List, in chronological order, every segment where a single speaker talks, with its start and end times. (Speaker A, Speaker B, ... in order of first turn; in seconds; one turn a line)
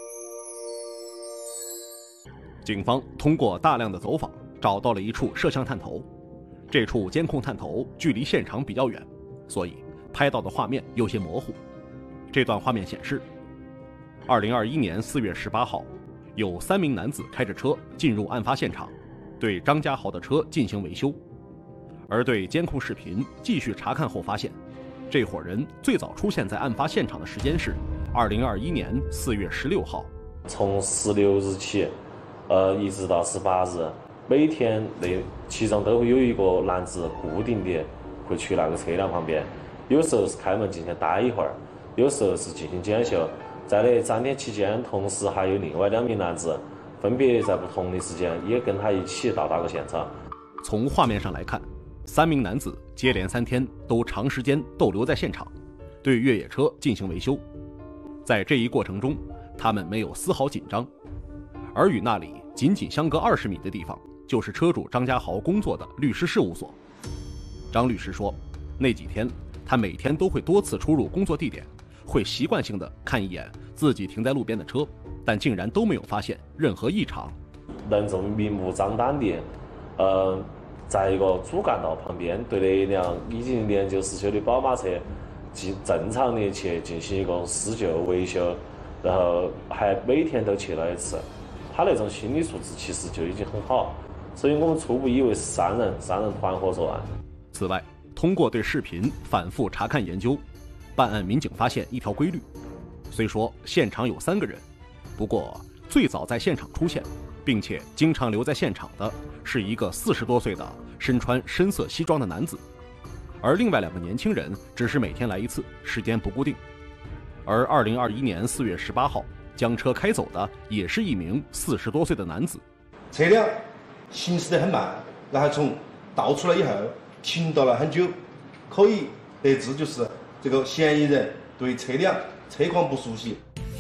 Speaker A: 2.6-6.1
Speaker A: 6.7-11.6
Speaker A: 12.3-13.3
Speaker A: 14.3-21.2
Speaker A: 22.1-24.6
Speaker A: 25.1-30.1
Speaker B: 30.5-32.0
Speaker B: 32.5-50.1
Speaker A: 50.6-57.4
Speaker A: 58.2-60.9
Speaker A: 61.7-66.8
Speaker A: 67.7-77.4
Speaker B: 77.8-97.1
Speaker A: 97.5-100.4
Speaker A: 101.0-102.5
Speaker A: 103.1-104.7
Speaker A: 105.2-112.6
Speaker A: 113.4-116.6
Speaker A: 117.5-122.6
Speaker C: 123.1-123.6
Speaker C: 124.1-128.2
Speaker C: 128.7-133.4